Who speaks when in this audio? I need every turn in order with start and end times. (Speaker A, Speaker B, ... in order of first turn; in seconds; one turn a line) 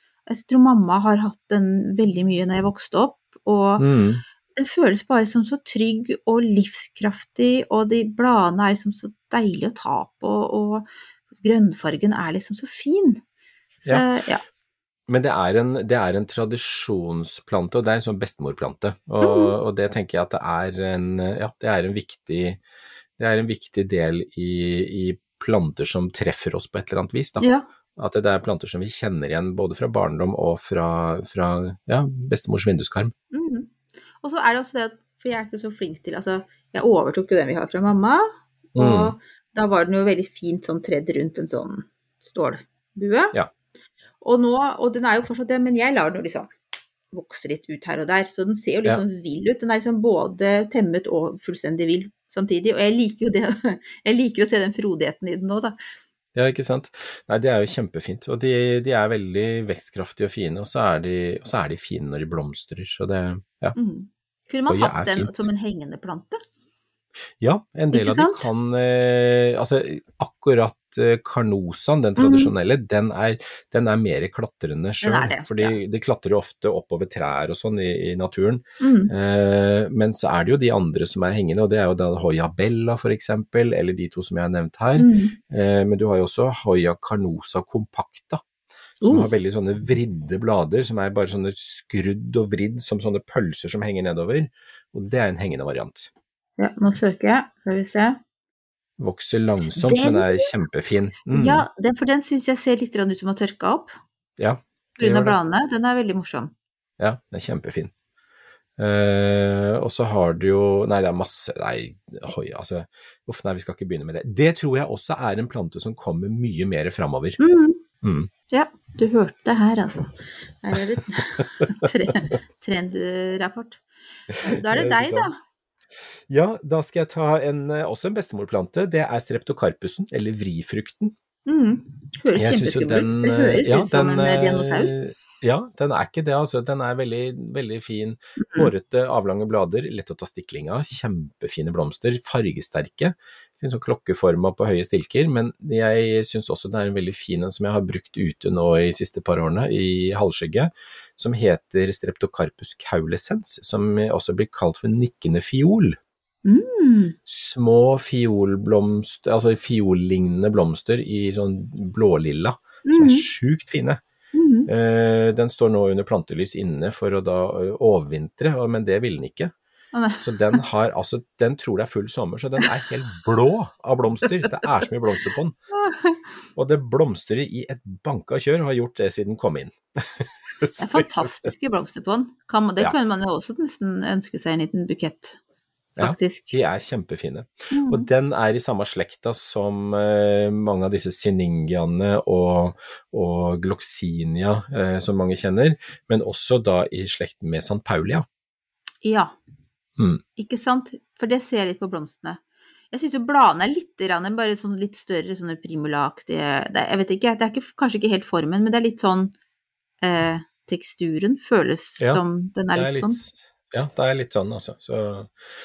Speaker A: 0.3-3.9
Speaker B: 3.8-4.2
Speaker A: 4.5-10.9
Speaker A: 11.4-13.2
Speaker A: 13.8-14.4
Speaker B: 15.1-22.6
Speaker A: 19.2-19.6
Speaker B: 23.2-33.1
Speaker A: 27.4-27.7
Speaker A: 33.3-43.4
Speaker B: 38.8-39.2
Speaker A: 44.2-46.5
Speaker A: 47.1-55.8
Speaker B: 56.4-63.8
Speaker A: 63.8-66.4
Speaker B: 64.7-65.5
Speaker B: 67.4-88.4
Speaker A: 67.9-68.5
Speaker A: 72.2-72.5
Speaker A: 75.0-75.8
Speaker A: 78.8-79.1
Speaker A: 85.0-85.4
Speaker A: 89.0-89.3
Speaker B: 89.0-96.1
Speaker A: 96.6-98.2
Speaker B: 99.0-101.7
Speaker A: 99.8-100.5
Speaker A: 101.3-103.9
Speaker B: 104.4-105.4
Speaker A: 105.0-106.5
Speaker B: 107.0-107.9
Speaker B: 108.8-117.4
Speaker A: 117.4-117.8
Speaker B: 118.0-118.3
Speaker A: 118.5-123.8
Speaker A: 124.4-125.4
Speaker B: 124.5-125.3
Speaker B: 126.3-131.2
Speaker A: 131.5-134.9
Speaker B: 132.3-156.0
Speaker A: 138.4-138.7
Speaker A: 156.4-157.2
Speaker B: 157.3-164.0
Speaker A: 162.8-163.3
Speaker A: 164.3-164.7
Speaker B: 164.7-169.5
Speaker A: 169.9-170.6
Speaker B: 170.2-175.6
Speaker A: 175.7-176.2
Speaker B: 176.6-181.4
Speaker A: 180.8-185.4
Speaker B: 186.0-198.3
Speaker A: 186.0-186.6
Speaker A: 187.7-188.1
Speaker A: 199.0-199.3
Speaker A: 200.4-202.4
Speaker A: 202.9-209.3
Speaker A: 210.0-213.2
Speaker B: 212.8-215.3